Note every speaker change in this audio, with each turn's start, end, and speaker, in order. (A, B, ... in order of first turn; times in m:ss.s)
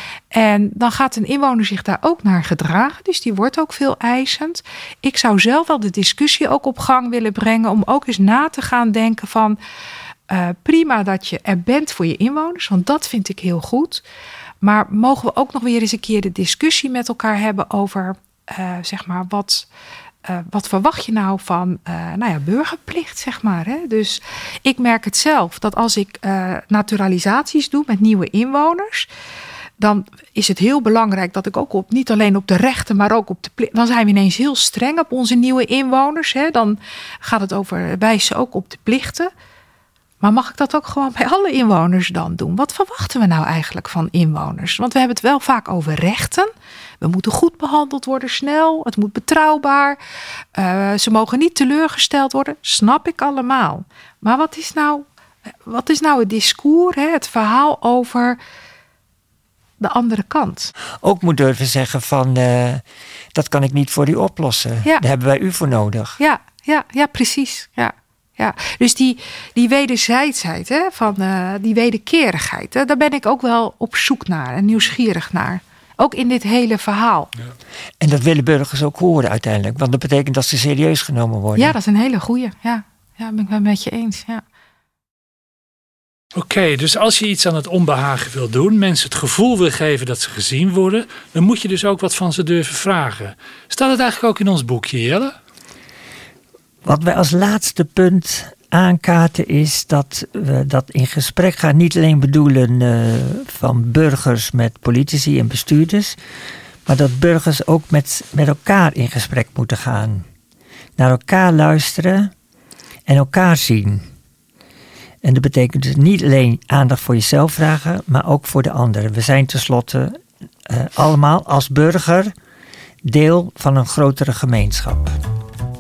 0:00.3-0:09.6 A
0:10.3-0:14.0 A
0:14.6-0:19.7 A
0:20.2-0:29.1 A
0:29.8-0:39.3 A
0:40.2-0:50.0 A
0:50.5-0:55.0 A
0:55.7-0:58.4 A
0:59.8-1:00.7 A
1:01.0-1:06.2 B
1:06.2-1:17.3 A
1:18.0-1:21.8 B
1:21.6-1:24.4 A
1:26.3-1:35.4 C
1:36.8-1:46.2 B
1:46.9-1:50.3 B
1:51.0-1:52.3 B
1:53.1-1:54.1 B
1:55.2-2:02.3 B
2:03.0-2:05.2 B